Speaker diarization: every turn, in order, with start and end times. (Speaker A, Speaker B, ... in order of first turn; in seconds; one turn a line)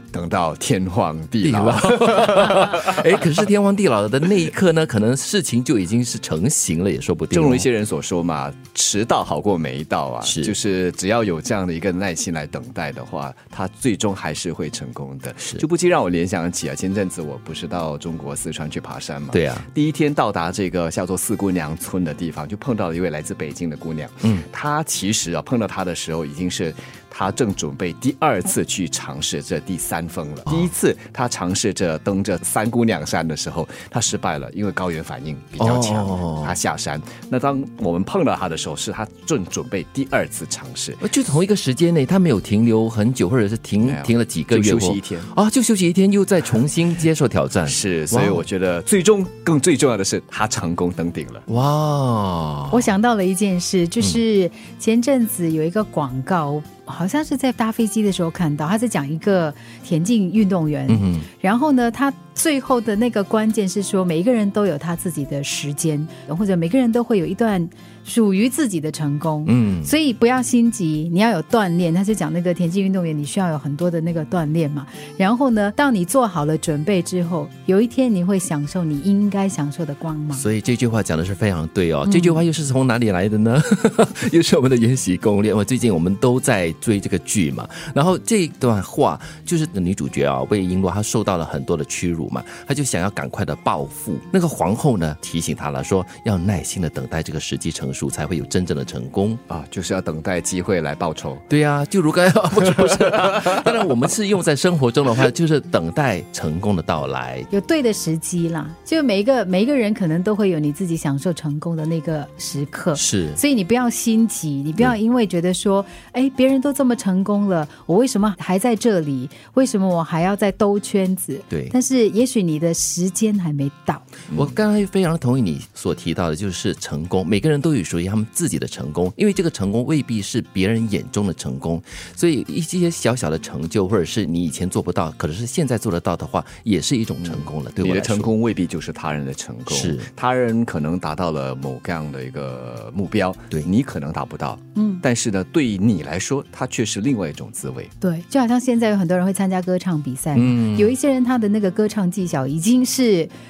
Speaker A: 0.1-3.0
Speaker B: 1.4-7.7
Speaker A: 7.3-41.0
Speaker B: 10.2-10.6
Speaker B: 19.3-19.6
Speaker B: 35.6-36.6
Speaker B: 41.0-48.4
Speaker A: 43.8-45.3
Speaker A: 47.7-51.5
Speaker B: 51.5-52.9
Speaker C: 52.7-80.5
Speaker B: 60.9-61.3
Speaker B: 69.5-69.9
Speaker B: 80.3-99.4
Speaker C: 82.0-82.4
Speaker A: 99.5-101.4
Speaker B: 101.5-107.5
Speaker C: 107.5-124.1
Speaker B: 113.0-113.4
Speaker B: 121.5-121.8
Speaker A: 124.3-124.6
Speaker B: 124.3-138.3
Speaker A: 137.2-147.9
Speaker B: 139.7-140.1
Speaker C: 144.8-145.0
Speaker C: 148.0-153.3
Speaker B: 150.3-151.0